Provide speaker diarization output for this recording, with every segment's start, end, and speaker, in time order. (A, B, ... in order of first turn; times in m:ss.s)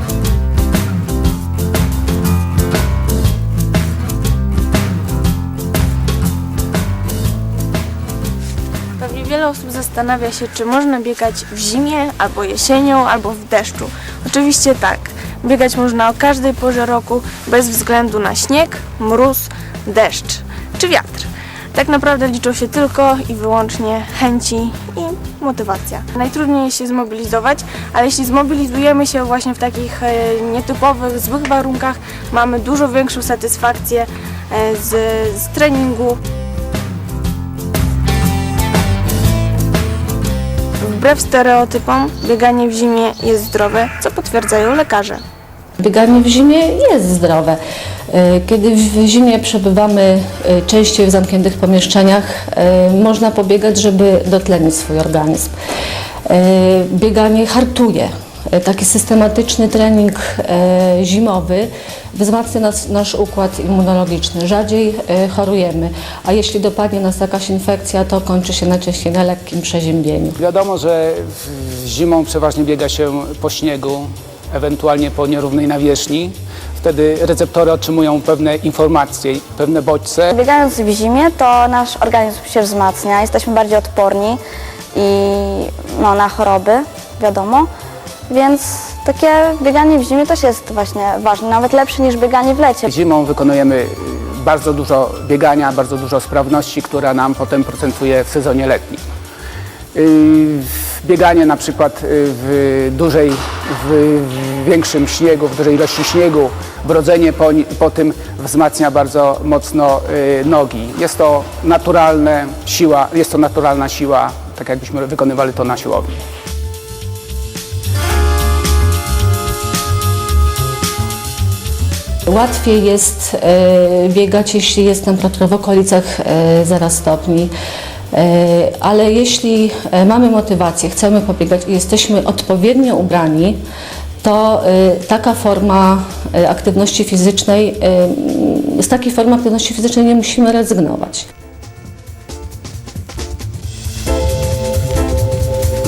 0:09.0-0:36.2 A
0:40.8-0:45.2 A
0:45.8-0:55.5 B
0:56.2-1:10.4 B
1:10.4-1:20.3 C
1:20.3-1:24.4 D
1:24.9-1:27.7 D
1:28.3-1:32.8 D
1:32.9-1:39.0 C
1:39.9-1:56.1 C
2:02.3-2:07.5 B
2:08.1-2:13.6 B
2:14.2-2:21.3 B